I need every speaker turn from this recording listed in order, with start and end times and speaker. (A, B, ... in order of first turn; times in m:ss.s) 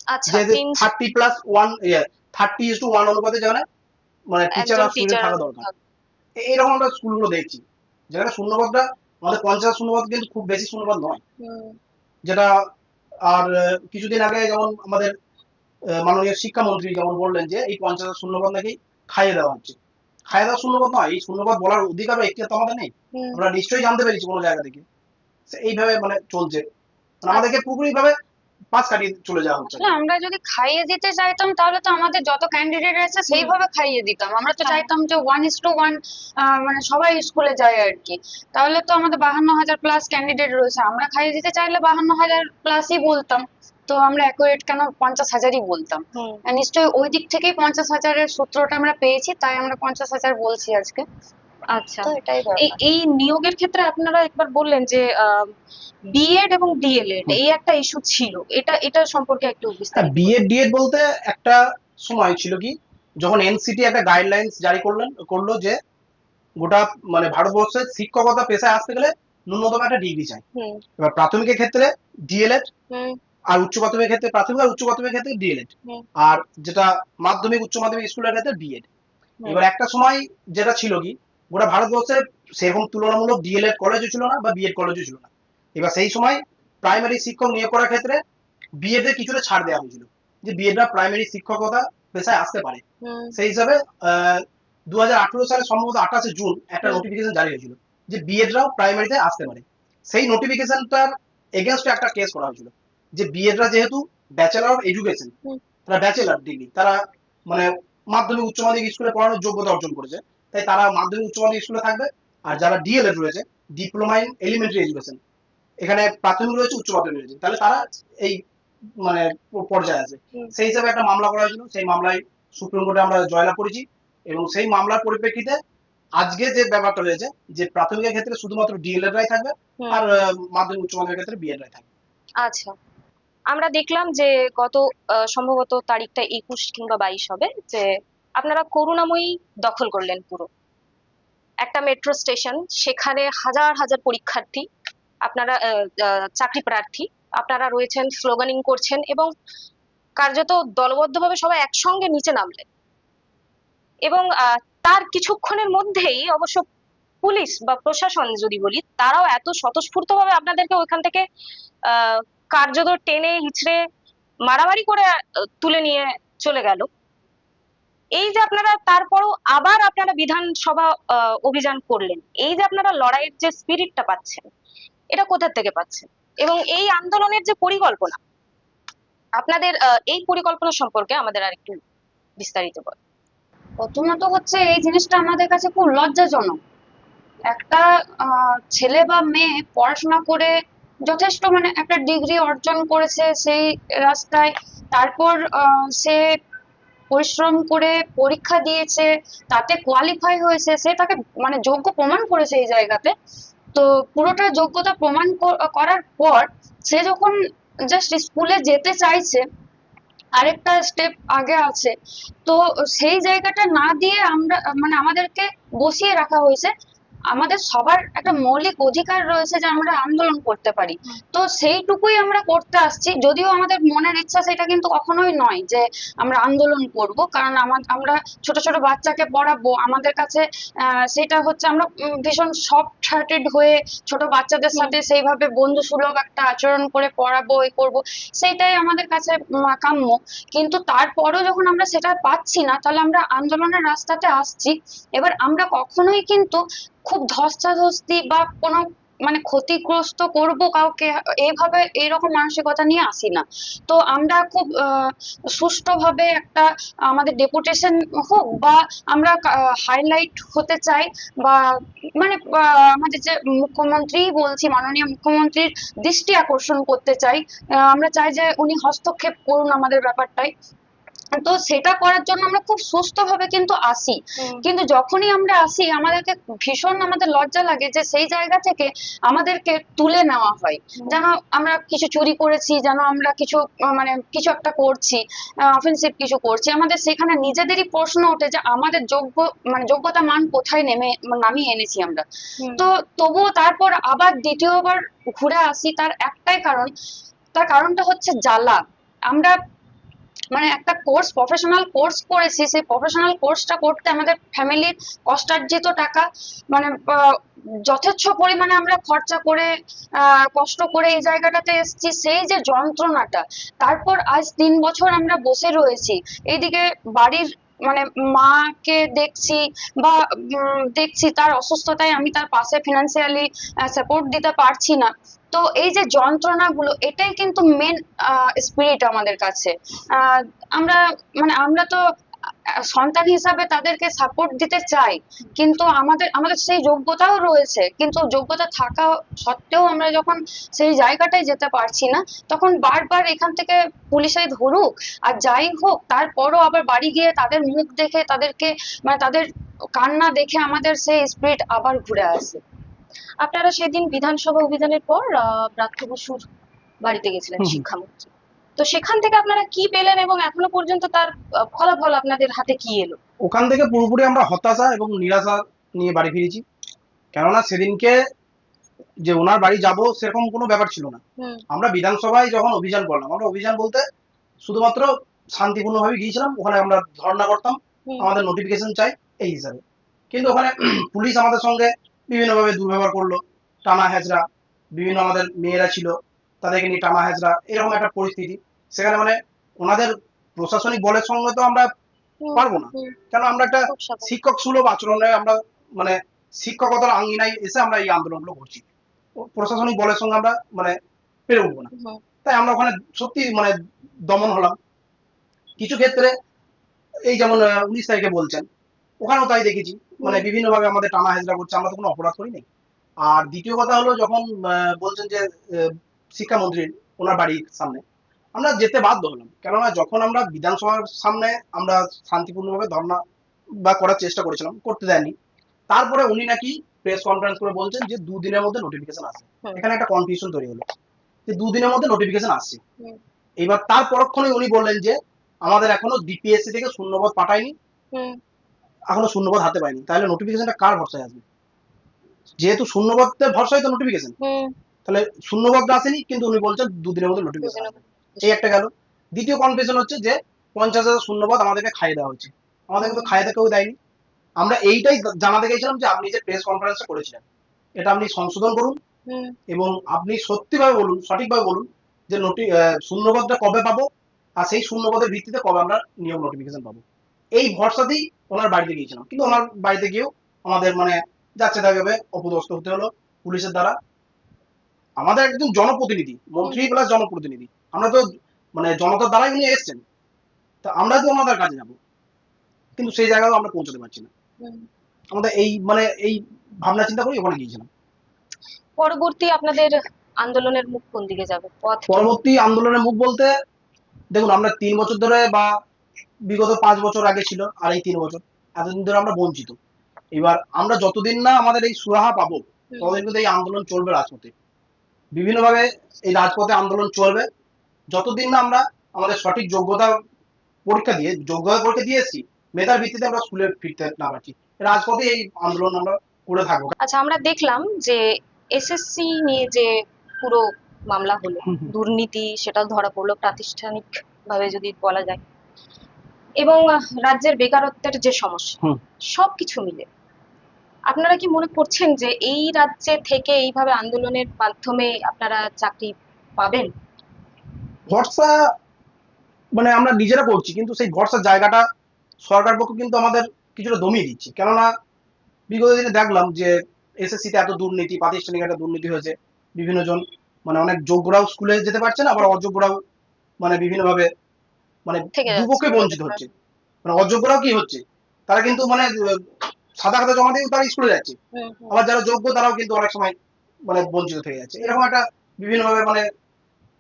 0:00.1-0:00.9 A
0:00.3-0:03.6 B
0:04.3-0:05.6 B
0:04.6-0:05.7 A
0:06.4-0:11.2 B
0:11.4-0:11.8 A
0:12.2-0:12.6 B
0:13.3-0:15.1 B
0:16.0-0:19.8 B
0:20.3-0:24.8 B
0:23.2-0:23.4 A
0:25.5-0:26.6 B
0:27.2-0:28.2 B
0:28.7-0:29.9 B
0:29.7-0:51.1 C
0:46.1-0:46.4 A
0:51.7-0:55.5 A
0:52.0-0:52.8 C
0:56.1-1:00.4 A
1:00.0-1:05.8 B
1:06.6-1:10.4 B
1:10.6-1:10.8 A
1:11.0-1:12.7 B
1:12.9-1:13.2 A
1:13.5-1:18.9 B
1:19.5-1:28.2 B
1:28.8-1:32.8 B
1:33.0-1:33.4 A
1:33.4-1:45.3 B
1:45.9-1:55.2 B
1:55.8-1:58.4 B
1:59.0-2:05.6 B
2:06.2-2:11.9 B
2:09.8-2:10.1 A
2:12.4-2:12.8 A
2:13.5-2:20.5 A
2:21.6-2:24.7 A
2:25.2-2:29.3 A
2:30.2-2:32.7 A
2:34.1-2:36.7 A
2:37.2-2:41.2 A
2:41.9-2:43.8 A
2:44.5-2:46.9 A
2:48.2-2:54.5 A
2:55.1-2:58.2 A
2:59.4-3:01.8 A
3:02.4-3:03.0 A
3:03.8-3:06.6 C
3:07.5-3:10.5 C
3:11.0-3:16.2 C
3:17.1-3:23.1 C
3:23.7-3:27.4 C
3:27.9-3:29.4 C
3:30.4-3:31.9 C
3:32.5-3:36.7 C
3:37.3-4:21.6 C
4:22.2-4:30.5 C
4:31.3-4:52.2 C
4:34.4-4:34.6 A
4:52.8-4:56.9 C
4:57.6-4:59.6 C
5:00.5-5:32.0 C
5:32.8-5:52.6 C
5:53.4-5:56.5 A
5:57.0-6:03.2 A
6:03.4-6:06.6 B
6:07.3-6:08.2 B
6:09.2-6:14.0 B
6:14.6-6:24.4 B
6:25.0-6:31.9 B
6:32.4-6:33.2 A
6:32.6-6:38.8 B
6:33.9-6:34.4 A
6:39.4-6:41.0 B
6:41.5-6:41.9 B
6:41.9-6:42.2 A
6:42.4-6:43.8 B
6:44.3-6:44.8 B
6:45.8-6:46.3 B
6:47.3-6:48.7 B
6:49.2-6:52.7 B
6:50.2-6:50.5 A
6:53.2-6:58.0 B
6:58.6-7:03.2 B
7:03.8-7:05.3 B
7:05.9-7:10.8 B
7:11.5-7:12.8 B
7:13.6-7:17.7 B
7:19.1-7:21.4 B
7:22.6-7:24.3 B
7:24.4-7:24.7 A
7:25.0-7:34.0 B
7:27.6-7:28.6 A
7:33.0-7:33.4 A
7:34.6-7:37.4 B
7:38.0-7:39.0 B
7:39.3-7:39.6 A
7:39.7-7:44.1 B
7:44.6-7:47.0 B
7:47.6-7:54.0 B
7:55.2-8:00.0 B
7:56.6-7:56.9 A
8:00.8-8:02.0 B
8:03.0-8:04.3 B
8:05.3-8:07.9 B
8:09.0-8:12.3 A
8:12.1-8:13.5 B
8:14.3-8:15.8 B
8:16.5-8:19.8 B
8:20.3-8:24.5 B
8:22.9-8:23.2 A
8:25.3-8:27.5 B
8:28.1-8:30.2 B
8:30.9-8:36.9 B
8:37.0-8:38.2 A
8:38.7-8:45.4 A
8:41.7-8:41.9 B
8:46.6-8:48.8 A
8:49.3-8:50.1 A
8:51.1-8:56.9 A
8:58.1-8:58.7 B
8:59.8-9:01.8 B
9:02.4-9:04.9 B
9:05.7-9:13.0 B
9:13.6-9:14.3 B
9:15.1-9:16.5 B
9:15.4-9:16.5 A
9:17.0-9:21.4 B
9:21.6-9:22.0 A
9:21.9-9:23.4 B
9:23.9-9:26.2 B